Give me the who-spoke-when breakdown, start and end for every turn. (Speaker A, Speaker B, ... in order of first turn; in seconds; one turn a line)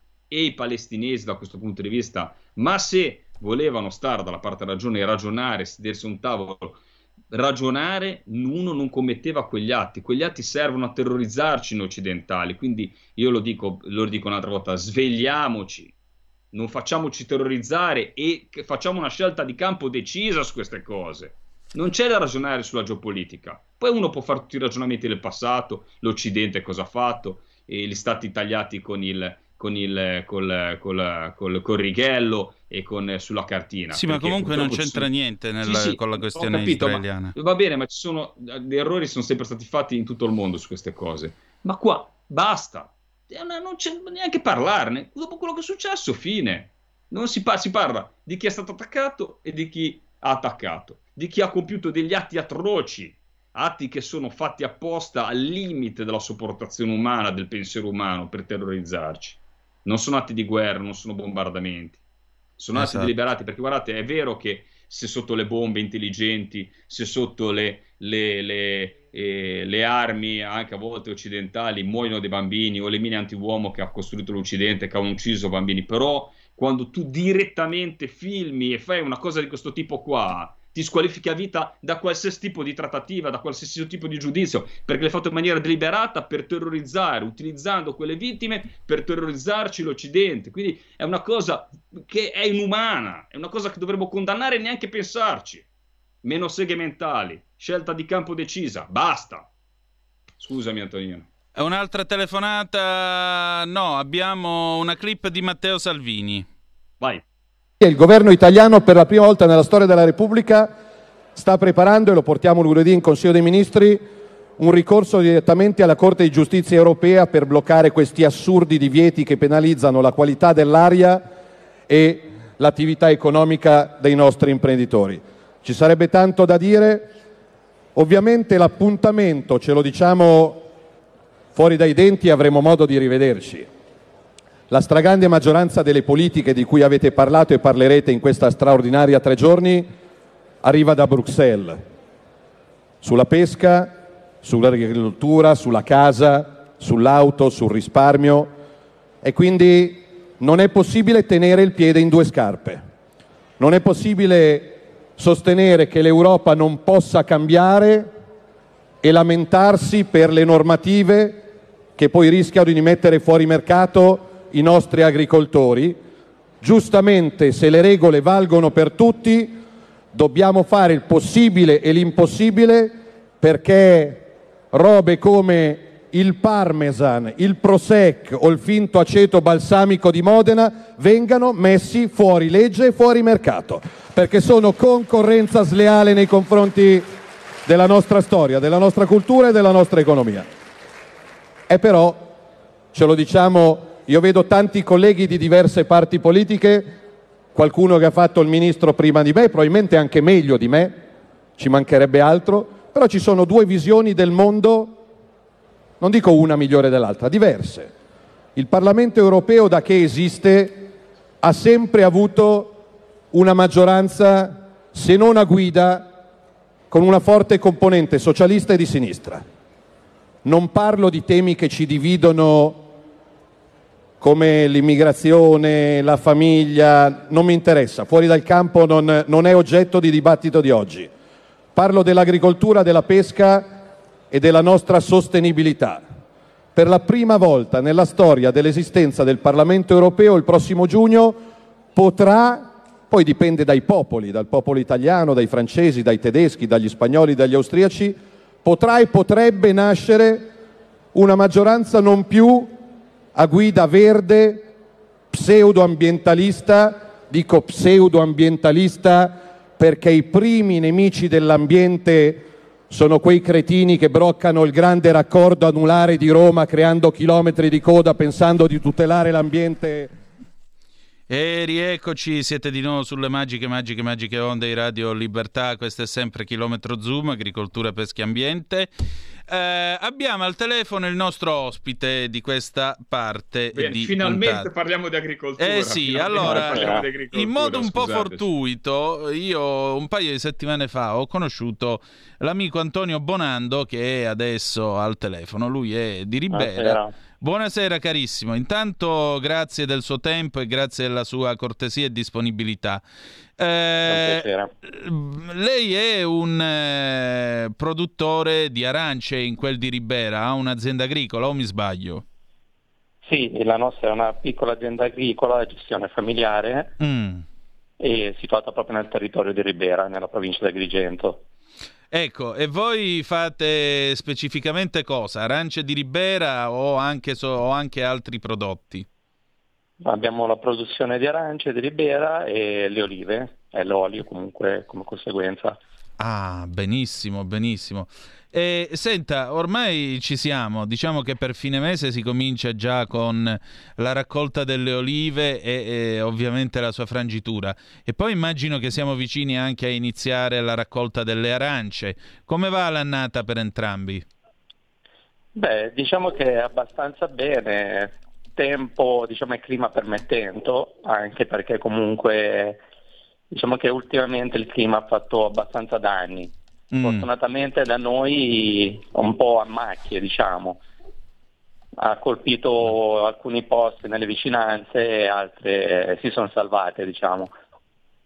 Speaker A: 0.3-6.8
Speaker A: 7.3-15.9
Speaker A: 16.5-35.1
Speaker B: 33.9-37.4
Speaker A: 35.6-62.0
Speaker A: 62.6-95.7
Speaker B: 62.8-63.1
Speaker A: 96.2-99.5
Speaker A: 100.4-101.3
Speaker B: 101.6-106.5
Speaker C: 107.8-110.8
Speaker C: 111.3-114.1
Speaker C: 114.6-121.3
Speaker C: 121.9-127.1
Speaker C: 128.0-130.7
Speaker C: 131.6-133.7
Speaker C: 134.7-139.9
Speaker C: 140.6-141.8
Speaker C: 143.0-148.5
Speaker C: 149.2-152.8
Speaker C: 153.6-158.1
Speaker C: 159.0-166.0
Speaker C: 166.6-169.6
Speaker C: 170.1-187.1
Speaker C: 187.7-190.5
Speaker C: 191.7-192.3
Speaker C: 192.9-197.0
Speaker C: 197.5-201.0
Speaker C: 201.6-205.0
Speaker C: 206.0-207.9
Speaker C: 208.6-212.8
Speaker C: 213.3-216.1
Speaker C: 216.9-219.4
Speaker C: 220.4-222.9
Speaker C: 224.2-231.1
Speaker C: 231.8-233.8
Speaker C: 234.3-236.0
Speaker C: 236.8-250.5
Speaker C: 251.1-252.8
Speaker C: 253.3-254.7
Speaker C: 255.3-270.1
Speaker B: 271.3-278.9
Speaker B: 279.5-284.7
Speaker A: 283.7-288.5
Speaker B: 285.6-303.0
Speaker D: 286.4-287.1
Speaker D: 296.5-297.1
Speaker B: 303.6-312.2
Speaker D: 304.1-304.7
Speaker D: 313.2-316.9
Speaker B: 317.0-317.4
Speaker D: 318.0-321.4
Speaker B: 322.1-329.1
Speaker D: 330.0-335.8
Speaker B: 336.2-354.3
Speaker D: 355.6-362.8
Speaker D: 363.5-370.8
Speaker B: 366.9-367.3
Speaker D: 372.0-377.5